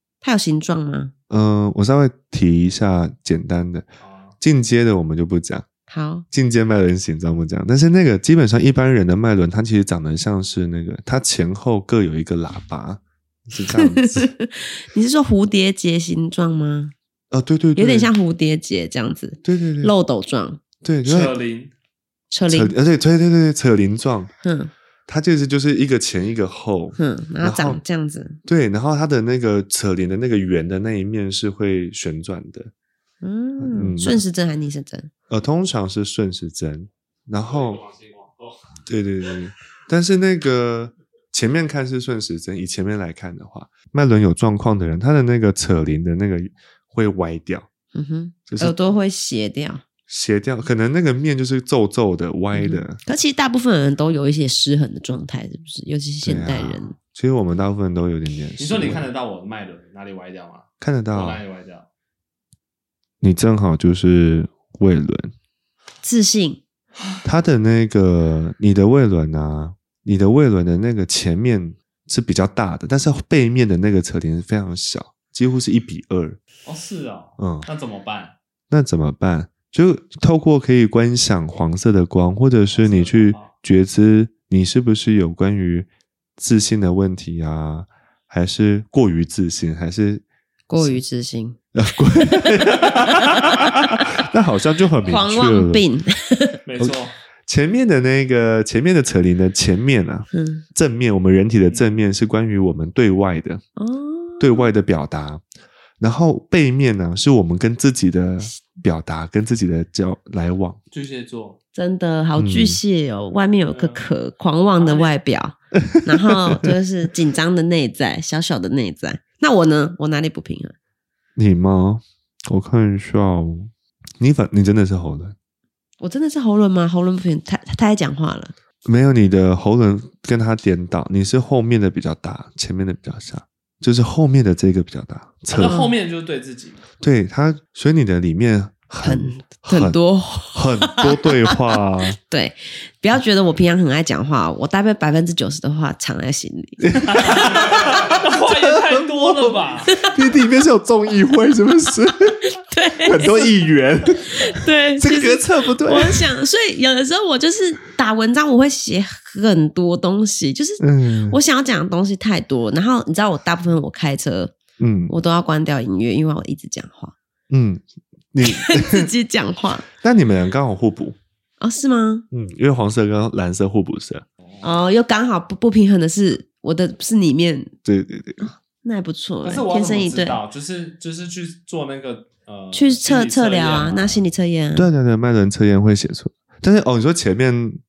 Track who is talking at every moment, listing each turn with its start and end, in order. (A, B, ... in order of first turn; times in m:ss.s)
0:00.2-0:01.1 A
0:01.3-0:03.9 B
0:04.0-0:04.3 C
0:04.4-0:05.7 B
0:05.9-0:06.2 A
0:06.3-0:14.3 B
0:13.7-0:16.9 A
0:17.3-0:18.1 B
0:17.8-0:20.6 A
0:19.4-0:19.9 B
0:20.8-0:21.4 B
0:21.0-0:21.7 C
0:22.3-0:22.8 A
0:22.5-0:24.3 B
0:24.4-0:24.7 A
0:25.1-0:27.8 B
0:27.0-0:28.4 A
0:28.4-0:32.7 B
0:33.2-0:35.1 A
0:33.6-0:34.2 B
0:35.3-0:37.9 B
0:37.8-0:38.2 C
0:38.9-0:47.7 B
0:48.0-0:49.8 A
0:48.5-0:48.8 B
0:50.1-0:53.0 B
0:52.5-0:57.0 A
0:56.2-0:59.1 B
0:58.6-1:01.9 C
1:00.8-1:01.4 B
1:03.2-1:05.3 B
1:06.0-1:06.6 A
1:07.0-1:07.2 C
1:07.2-1:16.4 B
1:16.7-1:18.3 C
1:17.4-1:17.7 B
1:18.7-1:30.2 B
1:22.8-1:23.5 C
1:30.7-1:31.6 A
1:31.8-1:35.8 B
1:35.0-1:36.6 A
1:36.7-1:37.1 C
1:37.5-1:43.6 B
1:40.3-1:40.6 A
1:43.8-1:44.7 A
1:44.4-1:45.4 B
1:46.0-1:50.8 B
1:50.9-1:51.6 C
1:51.8-2:00.7 A
1:52.4-1:52.8 B
1:53.7-1:54.1 C
1:54.8-1:55.1 C
1:55.9-1:56.7 B
2:01.4-2:05.4 B
2:06.0-2:08.5 A
2:08.8-2:15.8 B
2:15.5-2:16.8 C
2:15.6-2:16.0 A
2:17.0-2:20.0 B
2:19.0-2:21.6 A
2:20.5-2:22.2 B
2:22.3-2:28.1 A
2:26.8-2:36.3 B
2:27.1-2:30.0 C
2:29.9-2:30.4 A
2:32.4-2:33.5 A
2:34.3-2:44.6 A
2:40.8-2:41.4 B
2:44.8-2:45.1 B
2:45.1-2:47.1 A
2:47.5-2:49.1 B
2:48.4-2:49.9 A
2:49.9-2:51.2 B
2:51.6-2:52.2 A
2:52.3-2:54.2 B
2:54.6-2:57.7 A
2:57.8-2:58.5 B
2:58.4-3:00.4 A
2:59.4-3:04.2 C
3:02.7-3:04.9 A
3:04.8-3:07.8 B